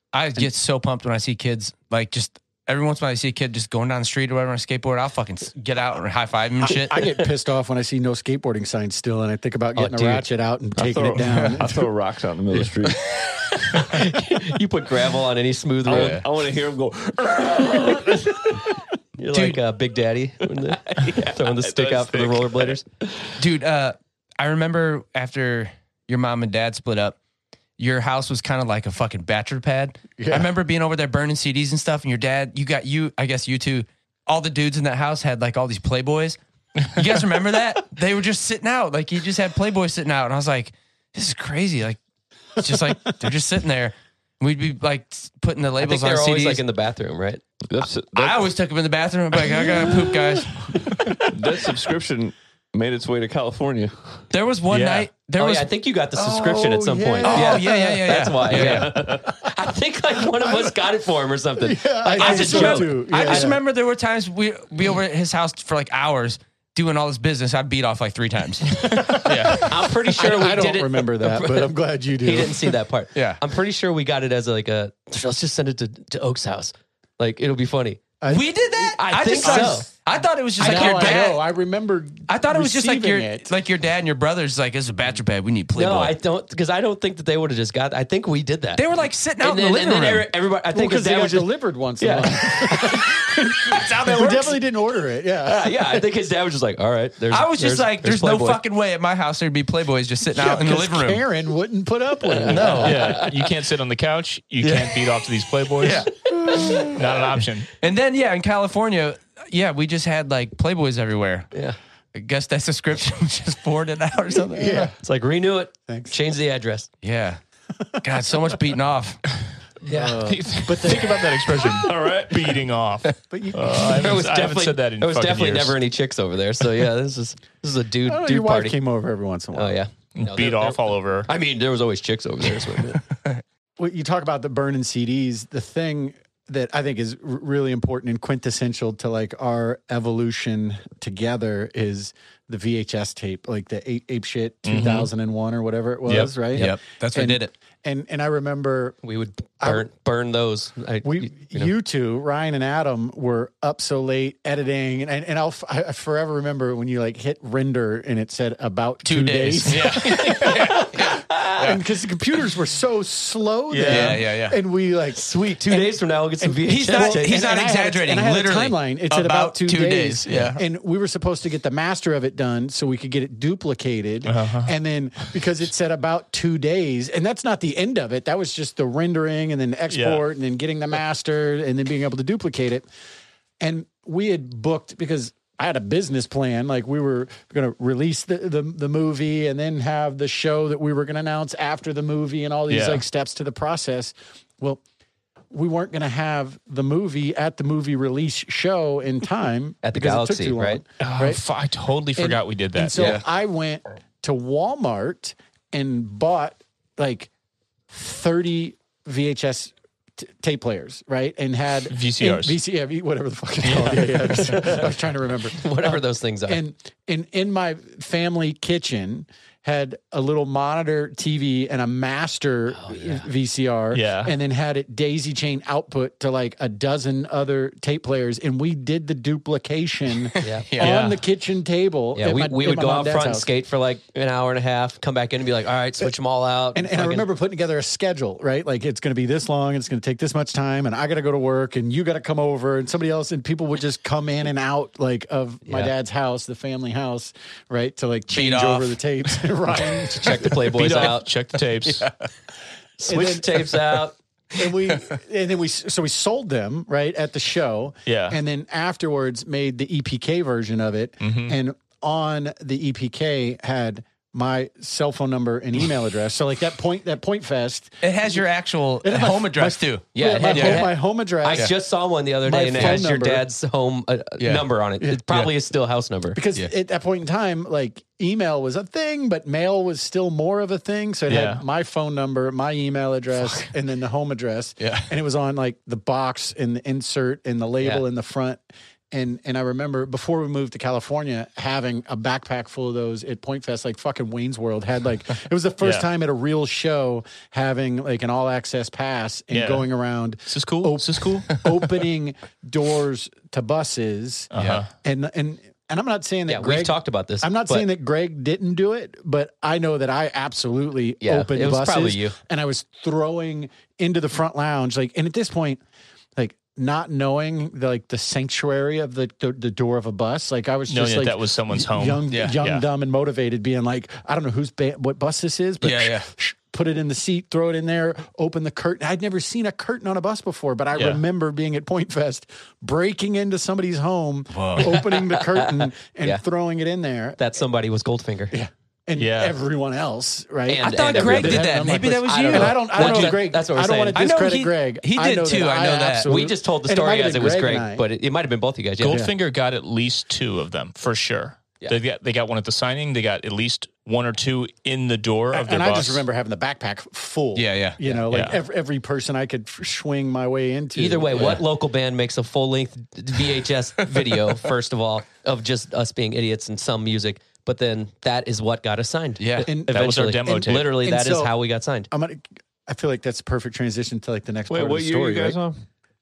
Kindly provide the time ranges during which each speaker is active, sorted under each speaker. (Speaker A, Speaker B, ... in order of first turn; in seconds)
Speaker A: 0.1-7.0, 11.2-11.6, 15.9-16.2, 19.3-19.6, 23.4-27.1, 27.8-42.0, 42.5-46.6, 48.1-50.7, 54.3-55.7, 57.2-59.0, 62.1-69.7, 73.1-73.4, 78.3-81.4, 82.3-86.1, 88.7-90.3, 94.1-94.4, 97.3-101.2, 102.5-103.2, 105.8-106.9, 107.8-111.5, 112.1-114.9, 117.0-117.4, 118.0-119.3, 146.5-147.5, 159.0-161.8, 163.8-164.6, 166.7-170.6, 230.3-231.0, 248.3-250.5, 251.8-252.1, 268.0-270.9, 272.7-273.1, 274.4-274.6, 284.8-285.1, 304.5-304.8, 322.3-322.5, 325.8-326.3, 334.5-335.0, 340.8-343.3, 344.1-346.3, 357.5-358.0, 361.3-361.6, 364.2-364.6, 369.4-369.7
Speaker B: 6.6-11.9, 30.2-30.5, 51.0-51.2, 56.1-59.5, 60.3-60.8, 61.6-63.6, 68.9-72.8, 78.2-79.8, 80.6-83.5, 90.7-96.0, 100.3-103.1, 104.6-104.9, 106.4-106.8, 114.5-115.0, 115.9-116.1, 119.8-121.8, 123.3-123.9, 128.1-129.8, 133.8-149.0, 149.6-149.8, 151.0-182.9, 183.6-194.8, 195.5-201.4, 202.2-207.3, 207.9-233.5, 236.7-250.5, 253.0-268.4, 269.0-271.7, 272.4-273.4, 276.3-288.6, 289.1-315.8, 316.4-337.4, 338.5-348.0, 349.1-349.3, 355.5-361.6, 369.6-371.5, 372.1-375.6
Speaker C: 9.8-10.2, 13.7-16.2, 19.2-22.8, 45.8-47.4, 55.4-63.5, 69.6-78.0, 79.0-79.9, 80.6-81.2, 85.7-88.8, 89.4-94.6, 95.5-98.6, 102.2-103.5, 115.0-116.9, 119.9-120.2, 123.8-128.8, 129.5-133.0, 149.0-151.7, 165.1-167.5, 199.8-200.8, 214.0-214.9, 215.5-216.6, 222.8-223.3, 230.4-230.8, 232.1-237.3, 245.7-245.9, 250.1-251.3, 253.0-254.1, 270.1-276.4, 306.5-307.9, 311.2-312.4, 334.8-336.4, 337.4-338.5, 340.7-341.7, 342.5-344.2, 346.2-349.2, 360.9-372.1
Speaker D: 10.8-13.0, 15.8-18.6, 21.1-22.8, 47.7-48.5, 51.2-54.2, 58.5-59.2, 121.8-122.6, 374.7-375.8
Speaker E: 54.7-55.1, 68.8-69.7, 102.8-107.7, 120.2-125.8, 130.1-131.3, 144.6-145.1, 146.1-146.4, 163.7-164.2, 174.2-174.7, 179.9-180.2, 192.7-193.0, 201.0-203.2, 211.9-212.6, 213.6-214.0, 223.9-224.3, 230.8-231.2, 250.6-252.1, 258.1-258.4, 261.2-261.5, 281.3-281.6, 295.8-296.1, 299.5-299.9, 300.4-301.6, 304.5-304.9, 320.9-322.8, 330.9-331.2, 339.2-339.6, 343.0-343.3, 349.0-356.2, 358.3-358.6, 369.9-371.0